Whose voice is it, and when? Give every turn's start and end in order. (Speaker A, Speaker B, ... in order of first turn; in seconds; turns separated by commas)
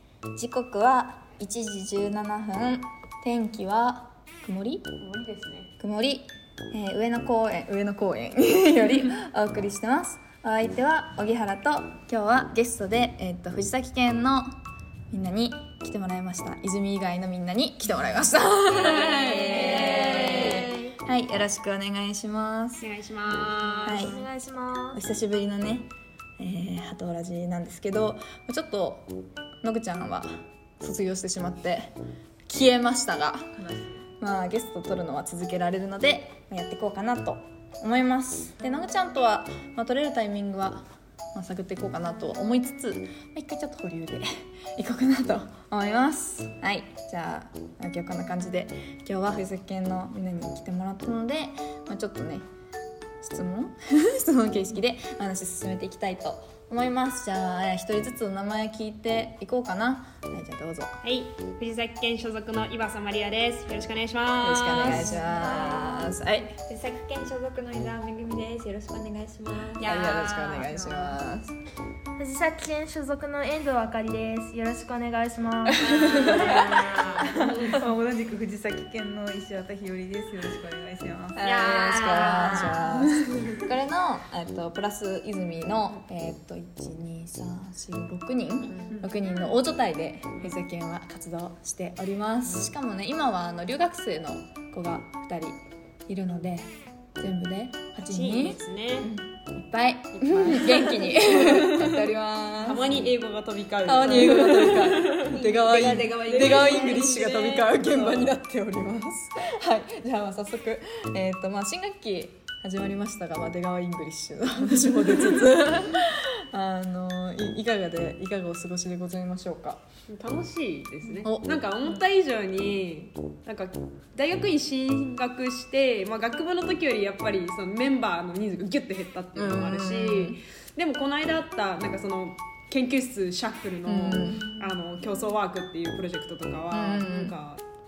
Speaker A: 0.3-4.9, Speaker B: 5.0-5.7, Speaker A: 5.8-14.5, Speaker A: 15.1-22.9, Speaker B: 18.8-20.7, Speaker C: 19.1-20.6, Speaker B: 22.8-24.1, Speaker C: 23.8-25.0, Speaker A: 23.8-24.2, Speaker A: 24.9-31.9, Speaker A: 32.5-33.6, Speaker C: 33.6-33.9, Speaker A: 34.2-52.4, Speaker A: 53.2-61.0, Speaker B: 61.0-65.1, Speaker A: 64.4-66.5, Speaker D: 64.8-69.9, Speaker C: 64.9-65.9, Speaker B: 69.7-70.7, Speaker A: 69.8-71.5, Speaker D: 70.8-71.1, Speaker C: 72.2-76.7, Speaker B: 75.8-77.8, Speaker E: 75.9-76.8, Speaker E: 77.3-81.4, Speaker A: 81.3-103.0, Speaker B: 81.4-83.5, Speaker E: 82.2-82.8, Speaker B: 88.7-89.0, Speaker B: 98.0-99.1, Speaker B: 100.1-105.4, Speaker A: 103.8-119.8, Speaker D: 105.2-108.2, Speaker B: 106.4-107.7, Speaker B: 120.1-137.6, Speaker A: 121.2-121.5, Speaker A: 129.3-130.4, Speaker A: 133.8-134.5, Speaker D: 134.3-134.7, Speaker A: 136.7-137.3